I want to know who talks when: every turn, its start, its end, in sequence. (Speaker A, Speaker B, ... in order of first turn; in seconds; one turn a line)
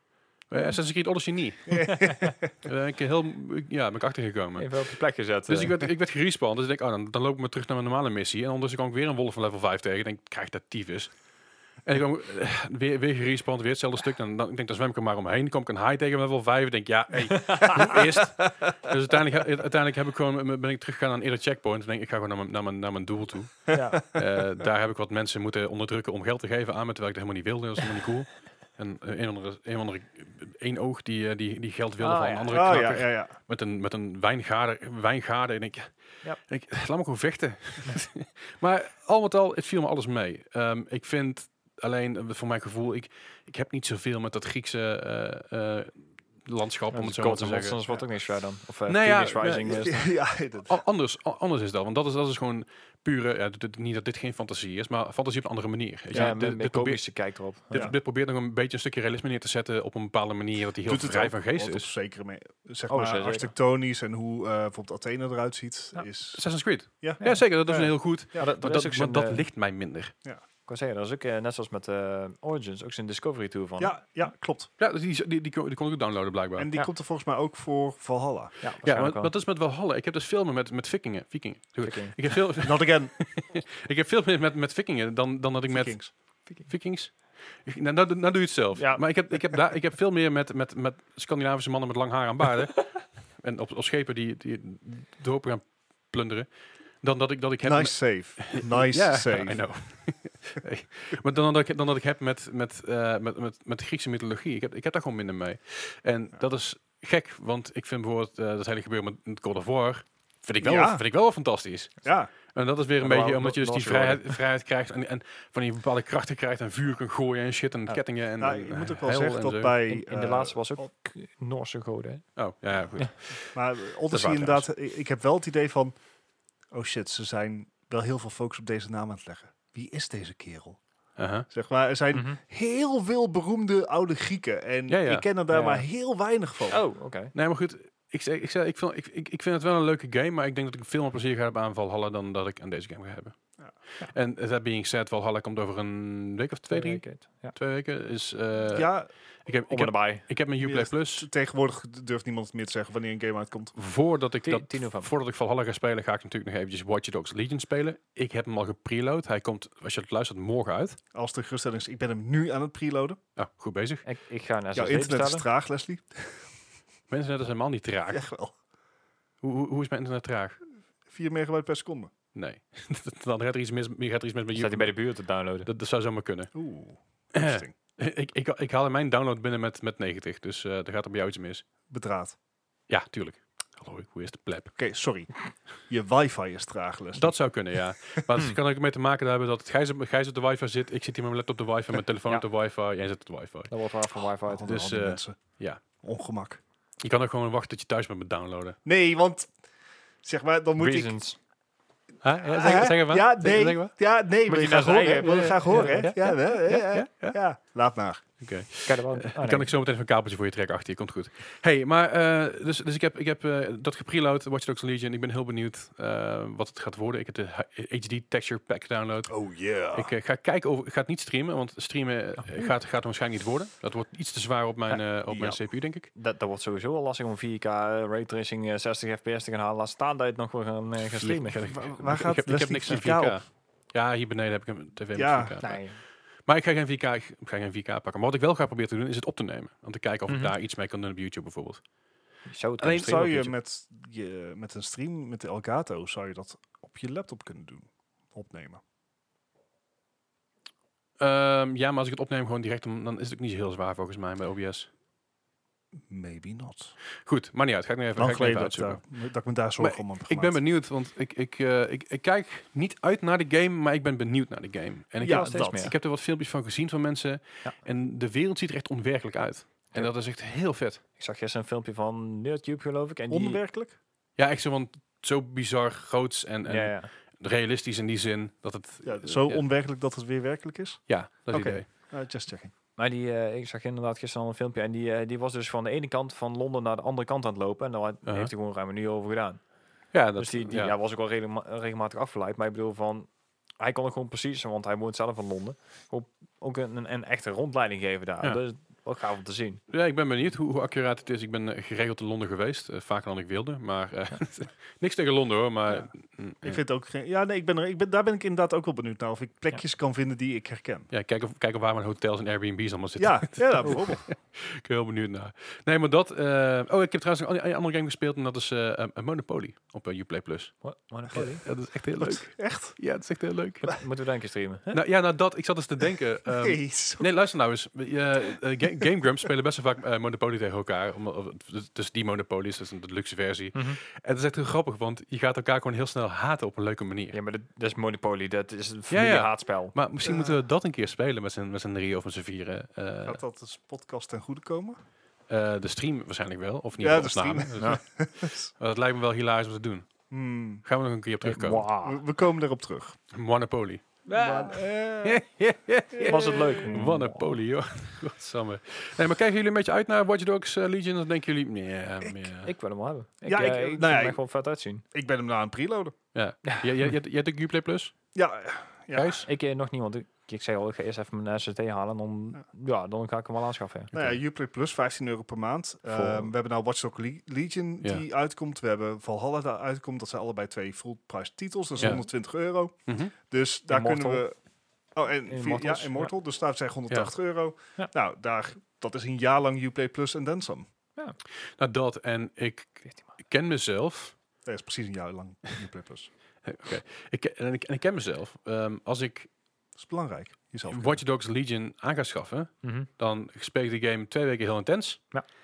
Speaker A: 0.5-4.7
Speaker B: 1.7-2.5
Speaker C: 1.9-2.2
Speaker C: 4.6-5.8
Speaker A: 5.5-11.1
Speaker A: 11.8-35.9
Speaker C: 17.3-18.0
Speaker B: 17.6-18.0
Speaker C: 23.7-24.0
Speaker C: 32.0-32.8
Speaker B: 32.5-33.3
Speaker A: 36.5-47.8
Speaker C: 46.9-50.0
Speaker A: 48.9-50.0
Speaker B: 49.7-50.8
Speaker A: 50.7-61.9
Speaker C: 56.1-57.9
Speaker B: 60.9-66.5
Speaker C: 62.9-63.5
Speaker A: 66.3-70.1
Speaker B: 67.0-68.5
Speaker C: 68.4-69.4
Speaker C: 70.7-74.0
Speaker B: 73.8-74.7
Speaker A: 74.8-76.7
Speaker B: 76.6-78.5
Speaker C: 78.6-79.3
Speaker A: 78.8-96.5
Speaker C: 81.8-82.2
Speaker B: 82.6-83.2
Speaker B: 85.7-86.1
Speaker C: 88.8-89.0
Speaker A: 97.0-112.0
Speaker B: 97.6-99.7
Speaker B: 110.6-111.0
Speaker B: 112.0-112.3
Speaker A: 112.5-119.8
Speaker C: 113.0-114.4
Speaker B: 118.4-120.9
Speaker C: 119.9-122.3
Speaker A: 122.4-123.6
Speaker B: 123.5-126.0
Speaker A: 124.1-124.7
Speaker B: 126.7-130.8
Speaker A: 131.2-131.5
Speaker B: 131.5-136.8
Speaker C: 132.1-132.4
Speaker A: 134.9-135.3
Speaker C: 135.5-135.8
Speaker C: 136.7-137.3
Speaker A: 137.3-143.4
Speaker A: 144.0-151.3
Speaker C: 146.7-147.6
Speaker B: 148.7-149.1
Speaker C: 149.7-150.3
Speaker B: 150.6-153.7
Speaker A: 153.8-161.0
Speaker C: 154.4-155.1
Speaker B: 161.1-163.2
Speaker A: 163.4-164.1
Speaker C: 164.1-165.5
Speaker B: 164.8-166.5
Speaker A: 167.1-168.2
Speaker B: 168.1-168.6
Speaker A: 169.4-170.6
Speaker B: 171.1-172.1
Speaker A: 172.3-175.0
Speaker C: 174.6-175.7
Speaker A: 175.7-176.5
Speaker B: 176.5-177.7
Speaker A: 177.3-181.6
Speaker B: 181.9-182.3
Speaker A: 182.9-184.8
Speaker B: 184.8-187.4
Speaker A: 187.2-193.7
Speaker C: 193.7-194.7
Speaker B: 194.5-196.6
Speaker A: 194.7-195.8
Speaker A: 197.0-198.8
Speaker B: 198.8-199.5
Speaker B: 200.2-201.1
Speaker C: 200.8-201.4
Speaker A: 202.2-203.9
Speaker B: 202.4-208.2
Speaker C: 204.5-206.3
Speaker A: 205.7-207.4
Speaker A: 208.4-226.1
Speaker C: 208.9-209.7
Speaker B: 219.3-220.1
Speaker B: 225.3-225.6
Speaker C: 226.2-231.6
Speaker A: 231.0-235.8
Speaker B: 231.7-233.4
Speaker B: 235.2-235.6
Speaker C: 235.6-236.0
Speaker A: 236.5-241.8
Speaker C: 242.5-243.5
Speaker B: 242.8-248.8
Speaker A: 251.2-254.9
Speaker B: 256.1-256.9
Speaker A: 257.2-259.0
Speaker B: 258.1-260.6
Speaker A: 259.8-271.0
Speaker B: 265.2-265.9
Speaker C: 265.2-265.9
Speaker C: 271.2-273.6
Speaker B: 273.3-274.0
Speaker A: 274.4-279.6
Speaker C: 276.7-277.1
Speaker B: 279.0-282.7
Speaker A: 281.1-281.9
Speaker C: 283.0-289.7
Speaker A: 288.3-288.5
Speaker A: 290.1-290.9
Speaker C: 290.4-299.8
Speaker A: 299.9-306.8
Speaker B: 306.6-311.1
Speaker A: 311.1-324.0
Speaker B: 313.2-314.3
Speaker C: 320.8-321.6
Speaker B: 322.2-323.0
Speaker C: 323.9-325.0
Speaker A: 324.9-337.4
Speaker B: 326.5-327.3
Speaker C: 337.3-339.9
Speaker A: 339.1-343.4
Speaker B: 340.2-340.6
Speaker B: 343.2-345.0
Speaker A: 345.5-350.1
Speaker B: 347.0-348.7
Speaker B: 350.3-350.8
Speaker A: 350.8-351.9
Speaker C: 351.4-352.2
Speaker B: 352.0-353.2
Speaker A: 353.3-354.1
Speaker C: 354.3-354.8
Speaker B: 354.3-355.4
Speaker A: 355.2-362.7
Speaker B: 356.1-357.2
Speaker C: 356.2-357.5
Speaker C: 362.6-365.0
Speaker B: 363.5-364.4
Speaker B: 365.1-366.2
Speaker A: 366.3-368.1
Speaker B: 368.4-369.4
Speaker A: 369.1-369.5
Speaker C: 369.4-374.3
Speaker B: 374.1-384.6
Speaker C: 376.1-376.5
Speaker C: 382.0-382.2
Speaker A: 383.1-383.3
Speaker C: 383.9-384.4
Speaker B: 385.1-390.9
Speaker C: 385.5-386.3
Speaker A: 391.8-394.4
Speaker B: 394.6-396.3
Speaker A: 396.6-399.5
Speaker B: 400.0-401.2
Speaker A: 400.9-405.3
Speaker C: 402.8-403.1